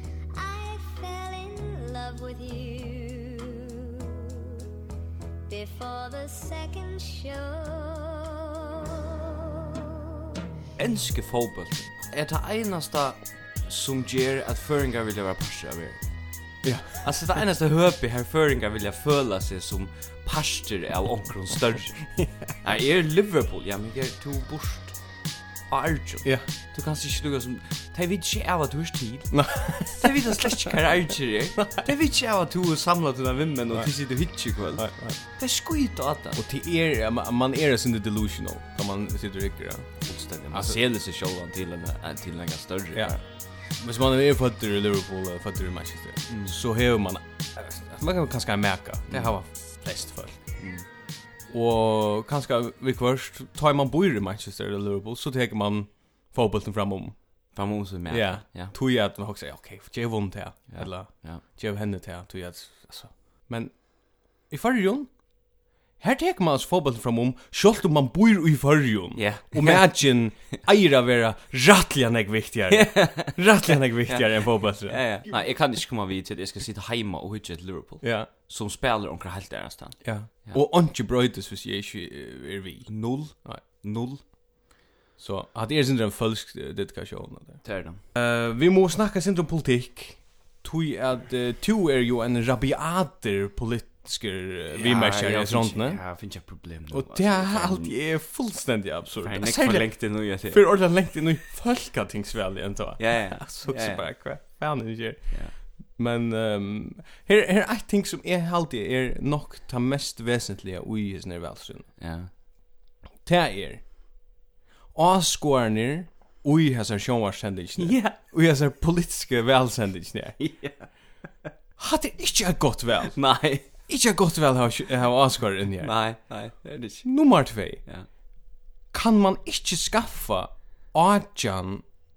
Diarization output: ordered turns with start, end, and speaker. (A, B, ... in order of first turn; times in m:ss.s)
0:00.3-0:04.6 A
0:05.5-0:10.2 A
0:10.8-0:16.0 B
0:16.6-0:17.0 C
0:17.0-0:22.0 B
0:22.6-0:25.0 B
0:25.7-0:36.4 B
0:29.3-0:30.7 C
0:34.8-0:35.2 C
0:36.3-0:39.9 C
0:40.0-0:43.2 B
0:40.5-0:40.8 C
0:43.7-0:50.4 C
0:46.3-0:46.5 B
0:50.6-0:50.8 B
0:51.5-0:57.2 C
0:57.5-0:58.7 B
0:58.1-1:05.1 C
1:00.7-1:01.4 B
1:06.0-1:15.0 C
1:09.2-1:09.9 B
1:12.7-1:20.6 B
1:18.0-1:18.3 C
1:20.0-1:23.6 C
1:22.9-1:24.2 B
1:25.2-1:27.6 C
1:27.6-1:28.0 B
1:28.1-1:36.0 C
1:34.7-1:37.9 B
1:36.9-1:51.9 C
1:39.2-1:40.7 B
1:43.0-1:44.0 B
1:52.0-1:52.3 B
1:53.2-1:53.8 C
1:54.9-2:00.4 C
1:57.8-1:58.2 B
2:00.4-2:00.9 B
2:01.8-2:05.9 C
2:03.1-2:03.7 B
2:05.8-2:07.1 B
2:07.0-2:07.8 C
2:08.9-2:11.8 C